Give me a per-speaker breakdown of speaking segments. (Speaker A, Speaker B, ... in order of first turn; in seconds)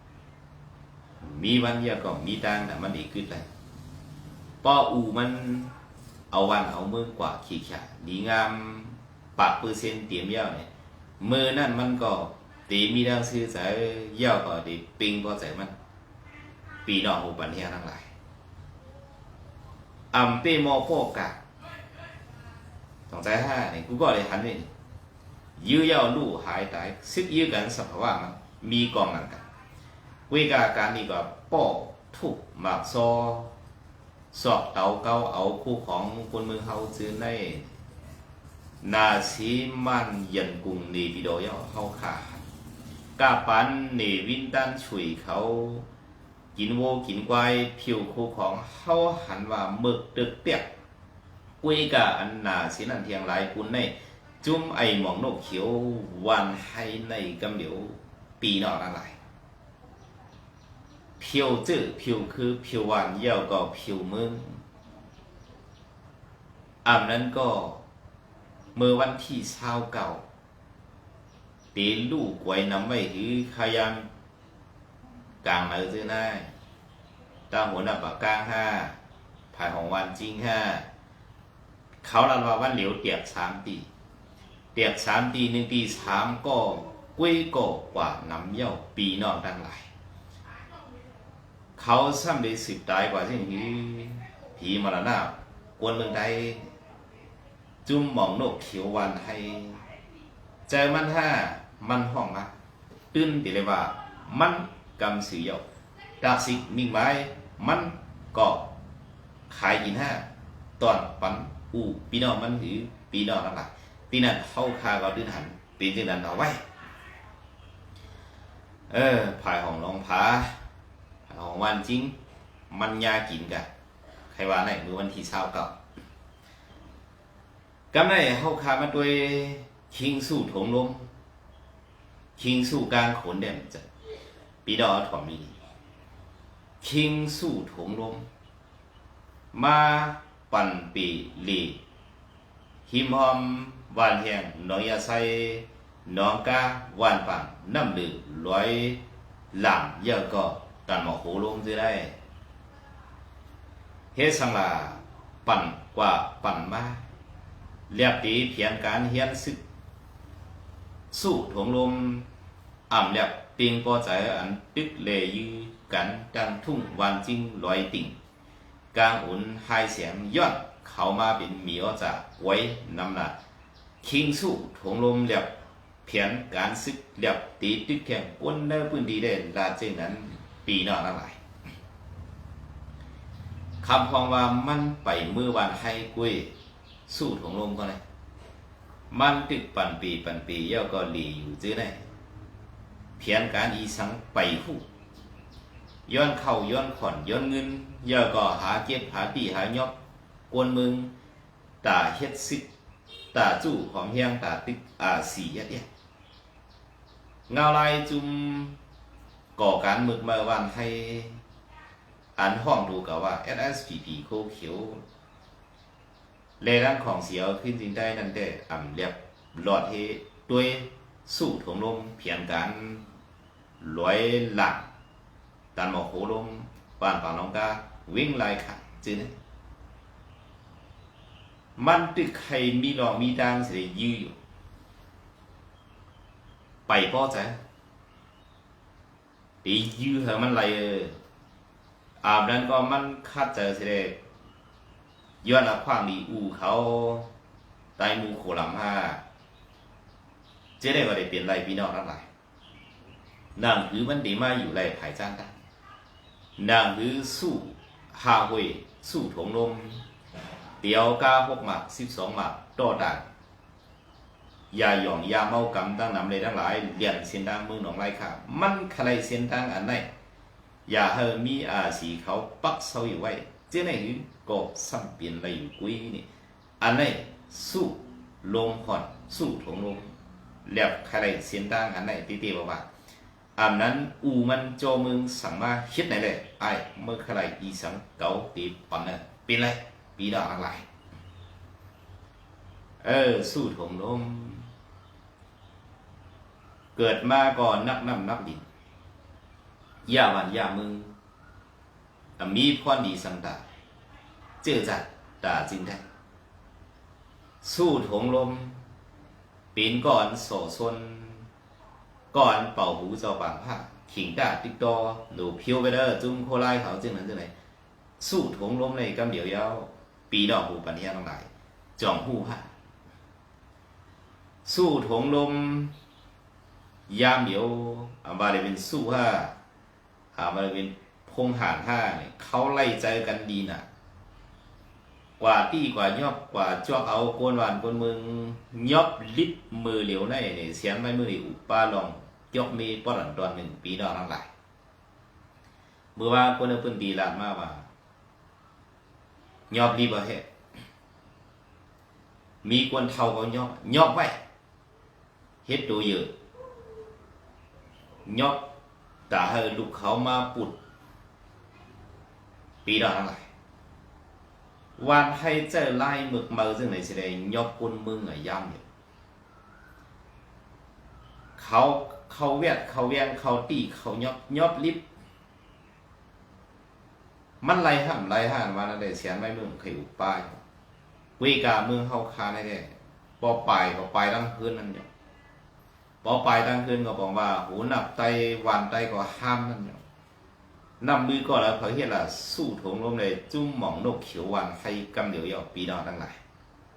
Speaker A: 1.2-3.5, 4.6-5.7, 6.3-10.7, 11.2-15.7, 16.9-18.1, 20.1-21.4, 23.1-24.7, 25.6-29.4, 30.3-33.5, 34.3-37.7, 38.8-42.4, 43.2-45.9, 46.5-50.7, 51.6-59.1, 61.2-64.6, 66.8-67.8, 68.8-70.2, 71.7-74.1, 75.4-76.5, 77.5-79.0, 79.5-80.9, 82.0-83.9, 84.8-89.9, 91.8-96.7, 97.8-99.8, 100.7-102.5, 103.1-105.6, 106.2-108.7, 109.5-110.3, 110.8-116.6, 118.9-120.6, 121.3-122.2, 122.7-123.7, 124.3-125.8, 127.9-131.1, 132.4-133.9, 134.7-135.6, 136.8-138.2, 139.5-141.8, 142.9-149.0, 149.5-152.2, 154.2-157.0, 157.9-159.6, 161.1-162.3, 162.9-168.2, 168.9-173.3, 174.0-175.5, 176.1-181.4, 183.8-186.5, 187.1-188.0, 189.1-192.0, 193.2-194.8, 196.1-199.9, 200.5-201.1, 201.8-202.7, 203.3-205.9, 207.5-208.8, 209.6-211.4, 212.4-215.0, 216.6-223.0, 223.8-224.9, 225.8-229.3, 231.8-234.3, 236.9-237.6, 239.6-241.2, 242.2-244.2, 245.4-247.3, 248.0-249.2, 250.8-252.3, 253.6-255.6, 256.6-260.1, 260.8-263.2, 264.7-270.1, 270.9-276.2, 276.8-280.1, 280.7-282.9, 283.6-290.9, 293.0-294.7, 297.0-298.7, 300.1-301.1, 302.4-303.6, 304.6-306.0, 307.6-308.8, 309.8-311.5, 312.3-317.5, 318.2-322.7, 324.6-325.9, 327.1-329.5, 330.4-333.9, 335.4-344.5, 346.2-347.9, 349.7-350.4, 352.6-354.4, 355.6-356.3, 358.3-358.6, 359.3-360.8, 362.9-363.5, 365.0-368.8, 371.6-375.0, 377.6-380.6, 381.4-385.1, 386.2-390.0, 391.0-396.4